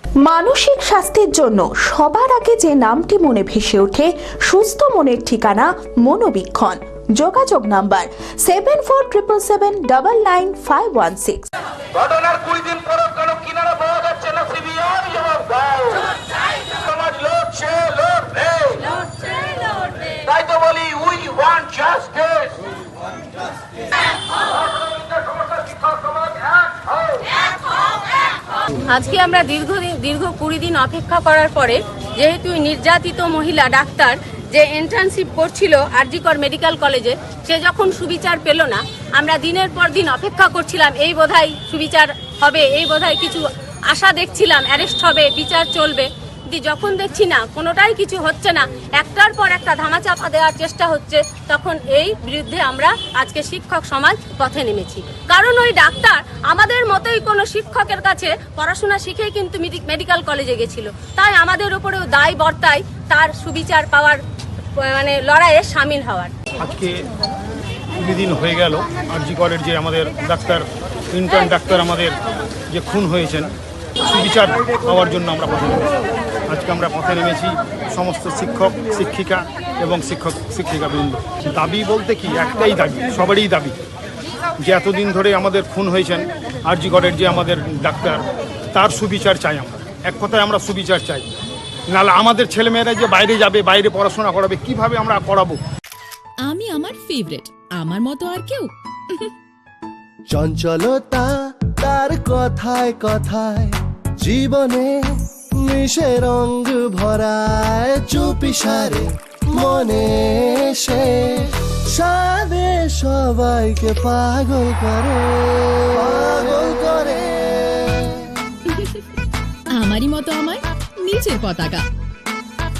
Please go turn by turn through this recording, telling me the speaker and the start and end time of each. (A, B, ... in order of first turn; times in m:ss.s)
0:00.2-0:11.5 A
0:12.0-0:18.7 B
0:20.2-0:22.5 B
0:24.6-0:27.0 B
0:28.9-1:04.2 C
1:04.8-1:06.3 C
1:06.6-1:06.9 D
1:08.0-1:12.2 D
1:12.7-1:13.5 D
1:14.0-1:15.9 D
1:16.5-1:23.7 D
1:24.6-1:28.2 D
1:28.7-1:31.2 D
1:31.9-1:35.6 D
1:36.4-1:39.3 E
1:40.3-1:44.9 F
1:45.6-1:58.3 F
1:58.7-1:59.1 E
1:59.7-2:01.9 E